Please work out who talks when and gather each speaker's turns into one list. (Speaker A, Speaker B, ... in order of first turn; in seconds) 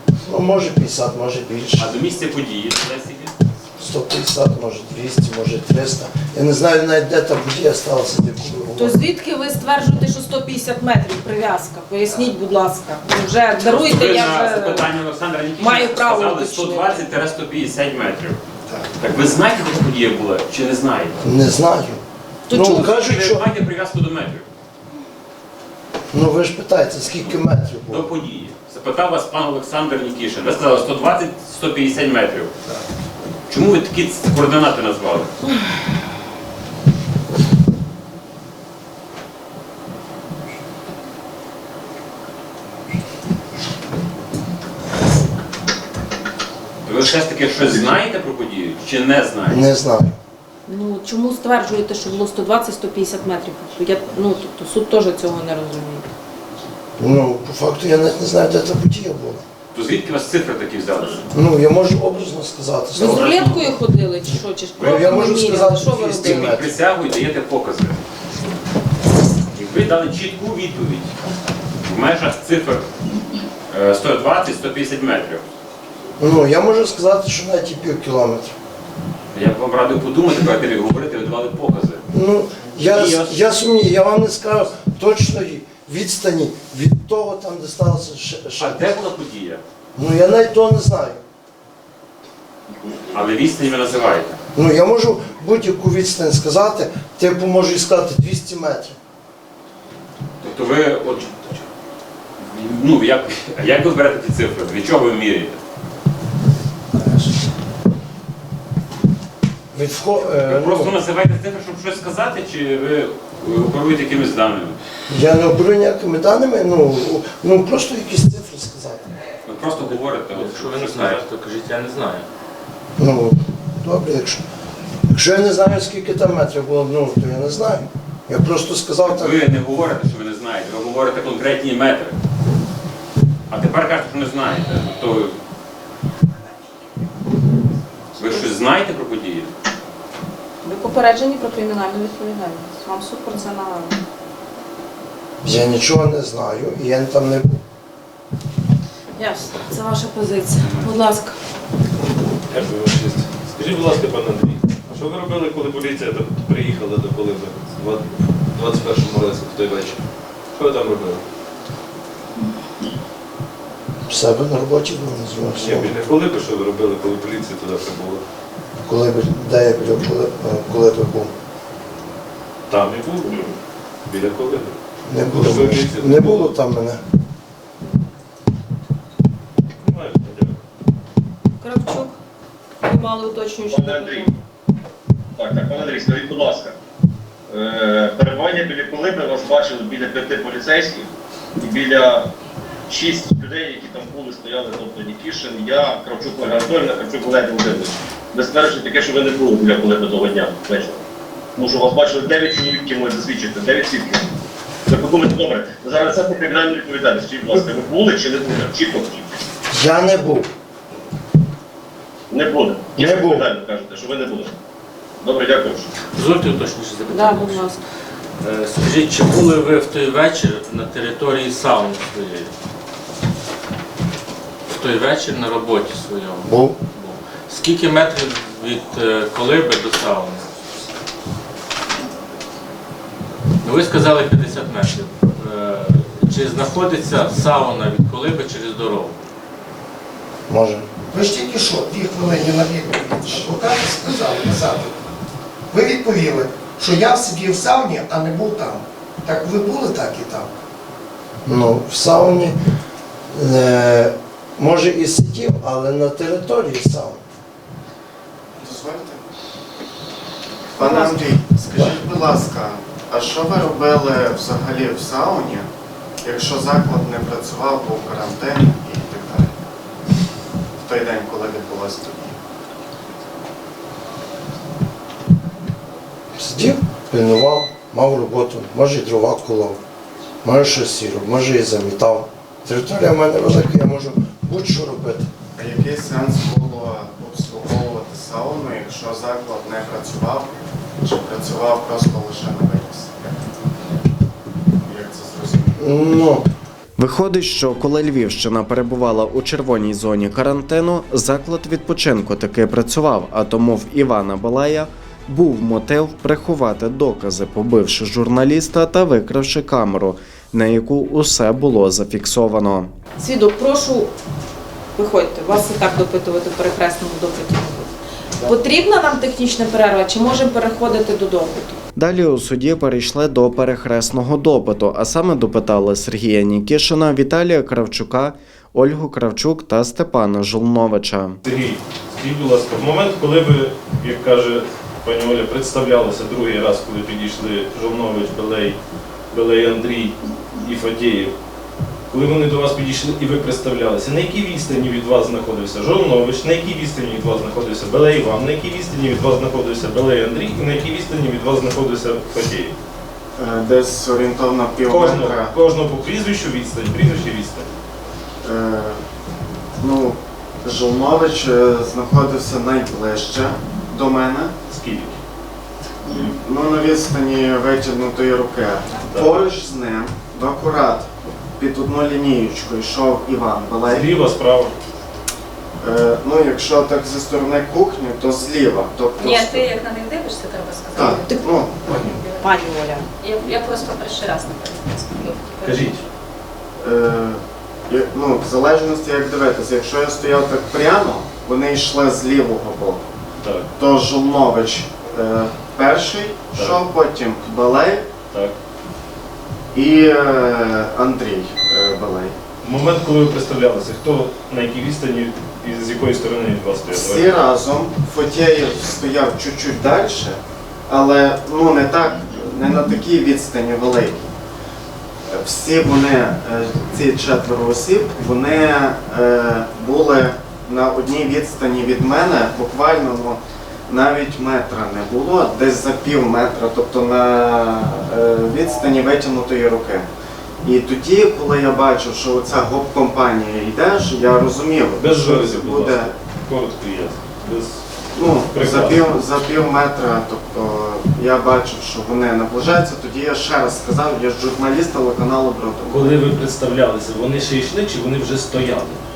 Speaker A: 0.2-1.9, 3.8-9.0, 21.2-23.4, 26.1-28.0, 49.5-50.2, 57.0-59.4, 61.3-63.5, 64.8-66.7, 76.2-78.5, 82.1-89.0, 90.0-91.2, 94.5-99.0, 109.7-111.0, 115.1-119.1, 123.0-124.4, 125.1-129.4, 145.4-147.6, 164.1-165.9, 168.8-171.3, 175.1-177.0, 209.7-210.5, 213.0-213.5, 226.4-226.8, 240.5-240.9, 251.4-252.6, 253.3-257.2, 276.4-279.8, 280.4-285.3, 295.8-296.5
Speaker B: 1.8-3.3, 13.6-18.4, 19.0-21.2, 22.6-24.4, 27.9-32.5, 33.5-35.3, 46.9-49.7, 59.7-61.2, 63.1-63.7, 66.2-68.0, 69.5-71.2, 71.8-72.9, 73.7-75.4, 79.3-82.0, 82.8-83.4, 88.6-89.6, 93.1-94.4, 100.4-101.6, 102.4-105.6, 110.3-114.8, 119.5-121.2, 129.1-132.2, 133.5-135.4, 138.2-139.5
Speaker C: 8.8-14.9, 15.6-17.1, 22.5-22.9, 50.7-56.0, 62.9-66.6, 140.6-144.0, 149.2-151.3, 181.6-182.2, 182.8-184.3, 217.1-217.8, 260.8-261.0, 313.2-314.1, 314.9-321.8, 382.4-383.1
Speaker D: 119.8-122.3, 216.1-217.7, 218.4-222.5, 224.7-230.5, 233.6-239.2
Speaker E: 152.5-160.0, 160.5-161.2, 165.6-168.2, 172.7-173.5, 174.1-174.8, 175.3-176.5, 179.8-180.6, 331.4-338.8, 339.3-341.3, 342.1-352.7, 354.9-357.7, 364.7-365.2, 369.1-369.4, 373.9-374.7, 381.9-382.2, 385.6-386.0, 393.4-393.7, 396.5-396.8, 402.6-407.4, 435.0-437.8, 438.5-439.1, 445.9-449.0
Speaker F: 183.7-184.3, 185.4-186.7, 187.5-192.3, 192.9-201.0, 201.6-204.2, 204.9-209.3, 212.3-214.5, 215.2-215.9
Speaker G: 241.1-245.0, 245.7-250.5
Speaker H: 258.6-259.3, 260.7-265.7, 266.2-269.5, 270.8-272.4, 285.6-293.5, 294.8-296.0, 353.4-355.5, 358.4-359.0, 359.8-364.6, 366.1-374.2, 375.8-379.7, 380.9-381.8, 386.8-393.0, 393.8-398.1, 399.7-402.4, 406.9-414.3, 415.3-430.1, 430.6-436.1, 438.1-446.3
Speaker I: 297.0-312.9, 321.9-331.4
Speaker J: 379.2-381.2, 382.1-382.4, 383.2-386.0